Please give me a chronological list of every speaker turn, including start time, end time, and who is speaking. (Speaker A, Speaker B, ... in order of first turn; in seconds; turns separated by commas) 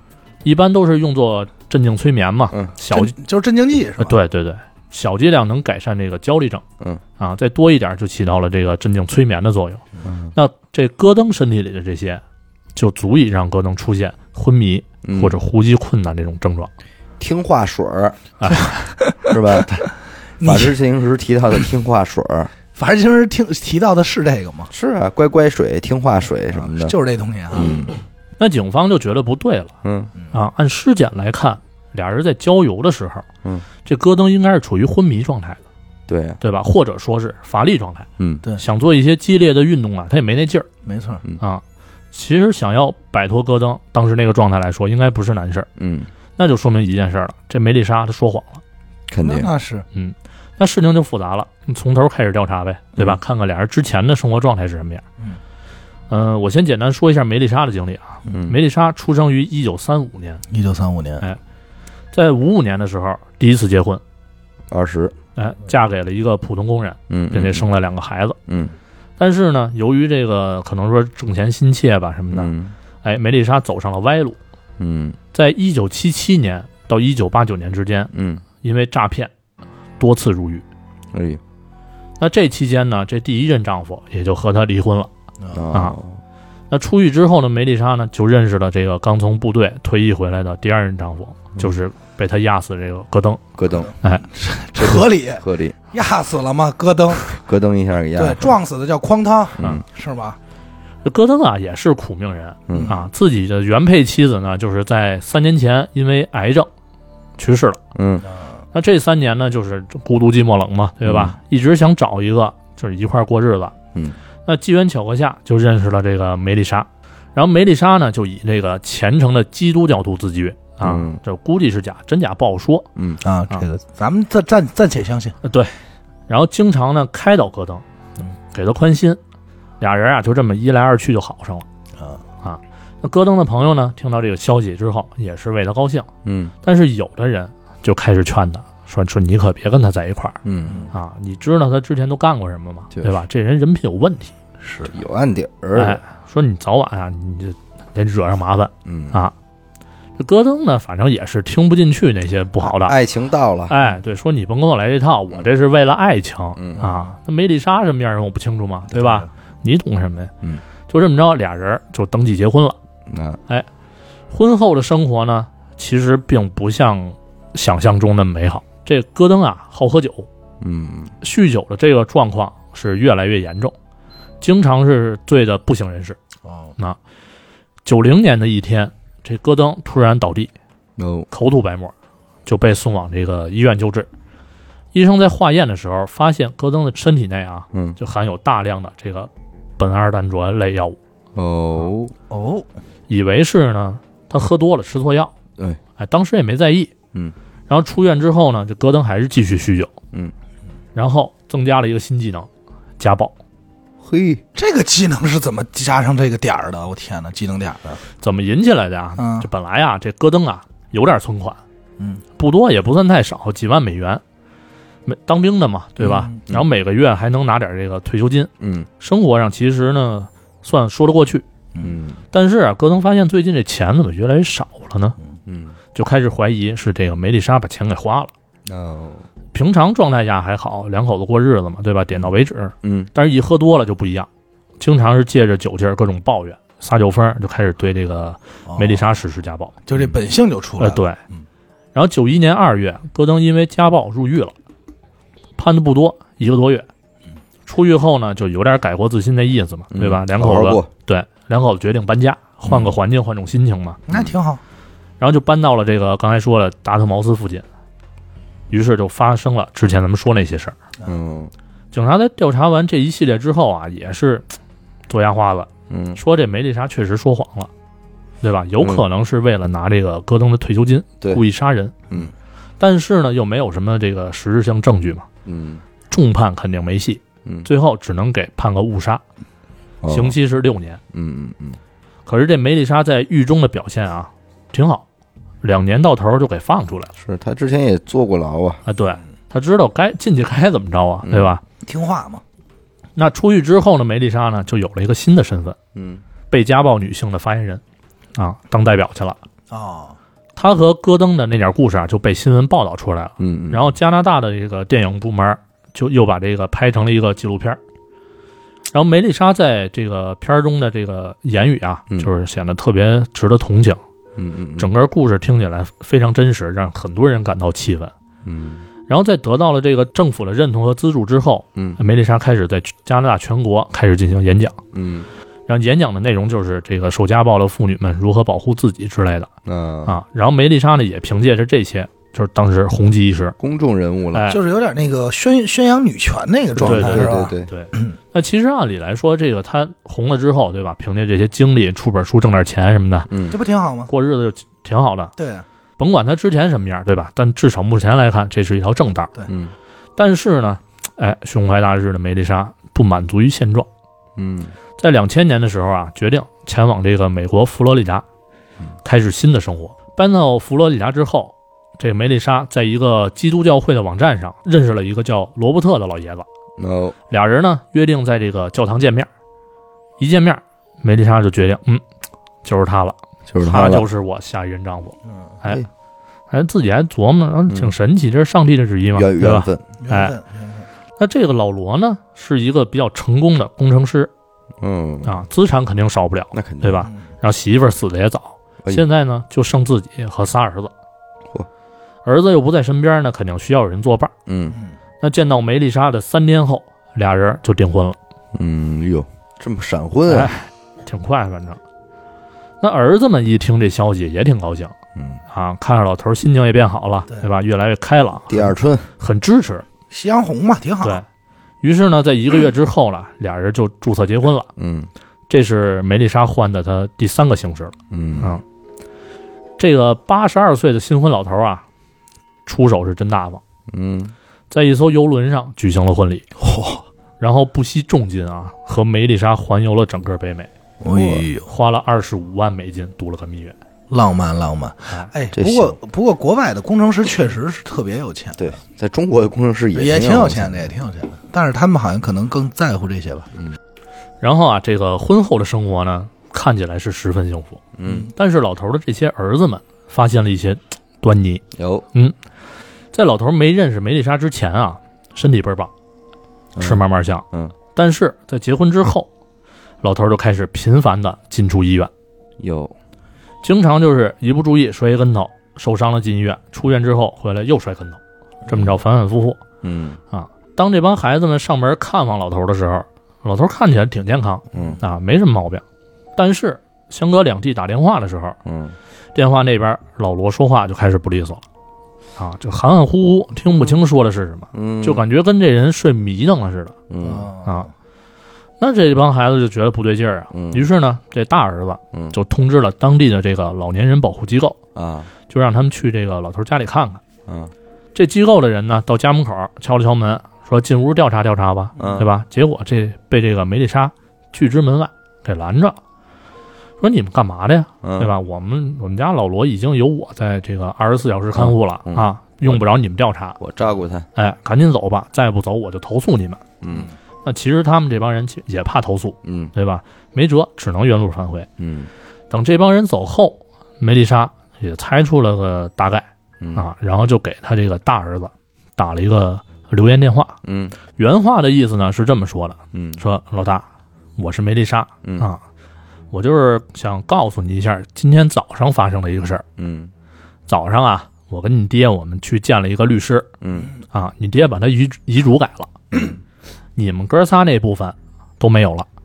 Speaker A: 0.4-3.1, Speaker B: 2.9-4.2, Speaker A: 4.0-6.6, Speaker A: 7.2-9.8, Speaker C: 10.0-10.3, Speaker A: 10.3-12.2, Speaker A: 12.8-16.7, Speaker C: 15.0-15.4, Speaker C: 17.2-18.2, Speaker A: 18.4-18.8, Speaker B: 19.0-19.9, Speaker C: 19.3-19.8, Speaker C: 20.4-22.5, Speaker B: 20.4-20.8, Speaker B: 22.7-24.7, Speaker C: 24.7-26.9, Speaker B: 26.5-27.9, Speaker C: 27.5-27.9, Speaker A: 28.4-29.7, Speaker C: 29.8-30.1, Speaker A: 30.3-33.2, Speaker A: 33.8-35.6, Speaker C: 36.1-36.4, Speaker A: 36.4-40.7, Speaker C: 38.2-38.4, Speaker B: 40.8-41.2, Speaker A: 41.4-45.7, Speaker C: 45.8-46.1, Speaker A: 46.4-48.6, Speaker C: 49.1-49.5, Speaker B: 49.2-49.9, Speaker A: 49.9-55.0, Speaker A: 56.1-60.4, Speaker C: 58.3-58.5, Speaker B: 60.5-61.2, Speaker A: 62.1-64.0, Speaker C: 64.7-65.2, Speaker A: 65.3-68.4, Speaker C: 67.1-67.7, Speaker C: 68.5-68.7, Speaker A: 69.2-72.5, Speaker C: 72.3-72.7, Speaker A: 73.0-74.4, Speaker C: 74.8-75.2, Speaker A: 75.3-78.1, Speaker C: 78.1-78.4, Speaker A: 78.6-79.3, Speaker A: 80.0-80.6, Speaker C: 81.1-81.4, Speaker A: 82.2-85.1, Speaker B: 85.4-85.7, Speaker C: 85.5-86.2, Speaker A: 86.7-93.4, Speaker C: 93.6-93.9, Speaker B: 93.7-97.4, Speaker A: 94.0-94.3, Speaker C: 94.8-95.8, Speaker C: 97.3-98.5, Speaker B: 98.2-100.4, Speaker C: 99.6-99.8, Speaker A: 101.0-106.7, Speaker C: 102.7-102.9, Speaker B: 102.7-103.0, Speaker A: 107.4-107.8, Speaker C: 107.9-108.2, Speaker A: 108.7-113.7, Speaker C: 111.0-111.3, Speaker A: 114.5-122.9, Speaker C: 120.8-121.2, Speaker C: 123.0-123.2, Speaker B: 123.2-125.4, Speaker A: 125.4-125.7, Speaker A: 126.3-127.8, Speaker A: 128.5-129.2, Speaker A: 129.8-131.7, Speaker A: 132.4-136.1, Speaker C: 136.2-136.5, Speaker A: 136.6-144.3, Speaker C: 140.4-140.9, Speaker B: 144.6-144.9, Speaker C: 144.9-146.0, Speaker A: 145.7-149.3, Speaker C: 148.8-149.2, Speaker A: 150.2-152.9, Speaker C: 152.6-153.7, Speaker A: 153.7-160.3, Speaker C: 156.6-156.9, Speaker B: 158.9-159.2, Speaker A: 160.9-162.8, Speaker C: 163.1-163.4, Speaker A: 164.3-170.3, Speaker C: 170.6-171.1, Speaker A: 171.2-173.7, Speaker A: 174.4-176.2, Speaker B: 176.4-176.7, Speaker A: 177.8-180.5, Speaker C: 181.0-181.3, Speaker A: 181.3-181.9, Speaker A: 182.4-184.1, Speaker A: 184.9-191.0, Speaker C: 191.3-192.1, Speaker B: 192.3-192.7, Speaker A: 193.1-195.3, Speaker A: 196.0-196.9, Speaker A: 197.7-199.9, Speaker A: 200.9-203.3, Speaker C: 204.0-204.4, Speaker B: 204.5-208.0, Speaker A: 208.2-211.6, Speaker B: 209.2-209.5, Speaker A: 212.4-214.2, Speaker A: 215.1-221.4, Speaker B: 216.0-216.4, Speaker C: 218.6-218.9, Speaker C: 221.8-222.2, Speaker A: 222.3-225.1, Speaker C: 225.4-225.8, Speaker A: 225.9-228.3, Speaker C: 228.7-229.2, Speaker A: 229.5-234.3, Speaker C: 232.8-233.1, Speaker A: 234.8-239.8, Speaker B: 238.7-239.0, Speaker B: 239.8-241.4, Speaker A: 240.8-241.2, Speaker A: 241.9-244.5, Speaker A: 245.6-246.9, Speaker A: 247.7-254.0, Speaker C: 249.9-250.9, Speaker B: 254.1-254.6, Speaker C: 254.1-254.3, Speaker A: 255.2-257.6, Speaker A: 258.7-260.8, Speaker C: 261.0-261.5, Speaker A: 261.9-264.5, Speaker A: 265.1-267.7, Speaker C: 265.9-266.2, Speaker A: 268.4-271.9, Speaker C: 268.8-269.0, Speaker A: 272.8-275.3, Speaker C: 275.4-275.8, Speaker A: 276.1-279.2, Speaker C: 280.0-280.4, Speaker A: 280.1-281.0, Speaker C: 281.1-281.8, Speaker A: 282.2-285.0, Speaker A: 285.6-287.1, Speaker C: 287.2-288.8, Speaker A: 288.9-291.6, Speaker C: 291.3-291.5, Speaker B: 291.8-292.4, Speaker A: 293.1-295.8, Speaker C: 295.9-296.2, Speaker A: 296.5-297.8, Speaker A: 298.4-299.4, Speaker B: 299.7-300.1, Speaker A: 300.6-307.8, Speaker C: 303.4-303.9, Speaker A: 308.9-314.0, Speaker C: 314.4-314.9, Speaker A: 314.8-318.1, Speaker C: 318.4-318.9, Speaker A: 319.1-324.8, Speaker C: 324.9-325.3, Speaker A: 325.7-329.5, Speaker C: 329.6-330.1, Speaker A: 330.0-333.6, Speaker C: 333.6-334.5, Speaker A: 334.3-334.6, Speaker B: 334.5-338.1, Speaker C: 336.8-337.7, Speaker A: 336.8-343.3, Speaker C: 343.3-343.6, Speaker B: 343.5-344.1, Speaker A: 344.1-345.3, Speaker B: 345.4-345.6, Speaker A: 346.0-349.3, Speaker C: 349.5-349.7, Speaker A: 350.2-353.9, Speaker C: 354.4-354.7, Speaker A: 355.0-358.2, Speaker A: 359.0-366.4, Speaker C: 366.8-367.1, Speaker A: 367.3-369.3, Speaker A: 370.2-372.0, Speaker A: 372.6-375.8, Speaker C: 373.5-374.1, Speaker A: 376.5-380.4, Speaker C: 379.1-379.8, Speaker B: 380.0-380.9, Speaker A: 381.2-384.3, Speaker C: 384.8-385.3, Speaker A: 385.2-390.9, Speaker C: 386.5-387.1, Speaker A: 392.2-394.3, Speaker C: 394.4-394.8, Speaker A: 395.2-398.2, Speaker C: 398.5-400.5, Speaker A: 400.3-401.8, Speaker A: 402.8-404.9, Speaker C: 405.1-405.4, Speaker A: 405.5-409.9, Speaker C: 408.5-409.1, Speaker B: 410.1-411.2, Speaker A: 411.8-414.7, Speaker C: 414.8-415.1, Speaker A: 415.5-418.6, Speaker C: 418.1-418.6, Speaker A: 419.8-421.8, Speaker A: 422.6-423.6, Speaker C: 423.9-424.3, Speaker A: 424.7-426.4, Speaker B: 426.6-427.0, Speaker A: 427.4-433.8, Speaker B: 431.0-431.7, Speaker B: 434.1-438.7, Speaker C: 435.5-436.0, Speaker C: 438.6-440.9, Speaker B: 439.9-443.5, Speaker A: 444.4-452.3, Speaker C: 447.9-448.3, Speaker C: 451.7-452.1, Speaker A: 453.1-455.9, Speaker C: 456.7-457.7, Speaker A: 456.8-459.3, Speaker A: 460.0-462.1, Speaker C: 462.6-462.9, Speaker A: 463.6-469.6, Speaker C: 469.8-470.2, Speaker A: 470.3-475.8, Speaker C: 474.7-475.0, Speaker A: 476.4-478.6, Speaker C: 478.6-478.9, Speaker A: 479.3-481.6, Speaker A: 482.4-487.0, Speaker C: 484.7-485.2, Speaker C: 487.1-487.5, Speaker B: 487.2-487.9, Speaker A: 488.8-494.8, Speaker C: 490.5-490.9, Speaker C: 494.9-495.3, Speaker A: 495.5-497.2, Speaker C: 497.5-497.7, Speaker A: 498.1-506.0, Speaker C: 502.0-502.3, Speaker A: 507.0-513.6, Speaker C: 508.0-508.3, Speaker C: 511.5-512.8, Speaker C: 513.6-514.3, Speaker A: 514.3-516.6, Speaker C: 516.8-517.1, Speaker A: 517.4-521.7, Speaker C: 519.4-519.7, Speaker C: 521.8-522.1, Speaker A: 522.5-530.6, Speaker C: 526.6-526.9, Speaker C: 530.6-531.0, Speaker A: 531.1-533.9, Speaker C: 532.9-533.2, Speaker A: 534.4-535.6, Speaker A: 536.3-539.6, Speaker C: 539.8-540.1, Speaker A: 540.7-543.5, Speaker C: 543.6-543.9, Speaker A: 544.1-546.0, Speaker A: 547.0-549.1